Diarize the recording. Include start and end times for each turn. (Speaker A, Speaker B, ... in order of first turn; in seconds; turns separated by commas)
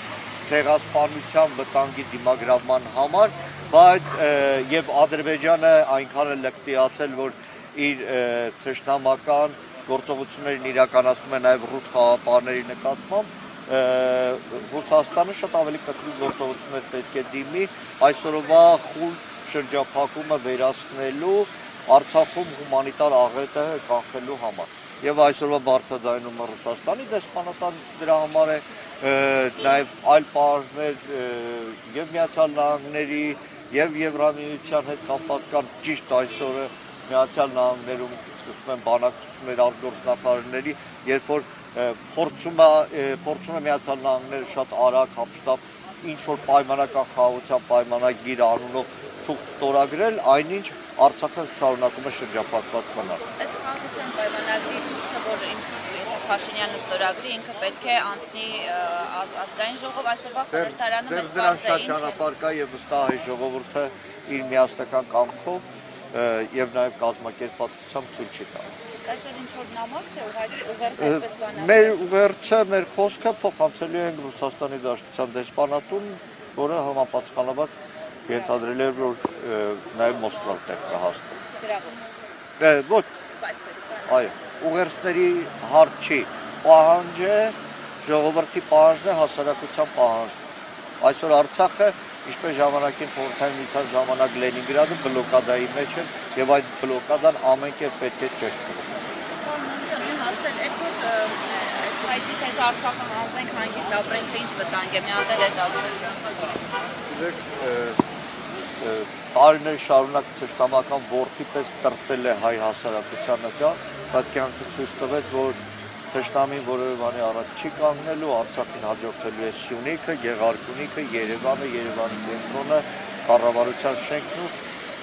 Speaker A: 0.4-53.2, Speaker B: 53.4-62.2, Speaker A: 60.5-68.7, Speaker B: 68.9-72.0, Speaker A: 71.0-77.7, Speaker A: 78.3-81.4, Speaker B: 78.3-78.6, Speaker B: 81.6-82.0, Speaker A: 82.6-83.1, Speaker B: 83.4-84.4, Speaker A: 84.1-90.4, Speaker A: 91.0-99.0, Speaker B: 99.4-106.2, Speaker A: 107.1-108.0, Speaker A: 108.8-115.6, Speaker A: 116.1-124.5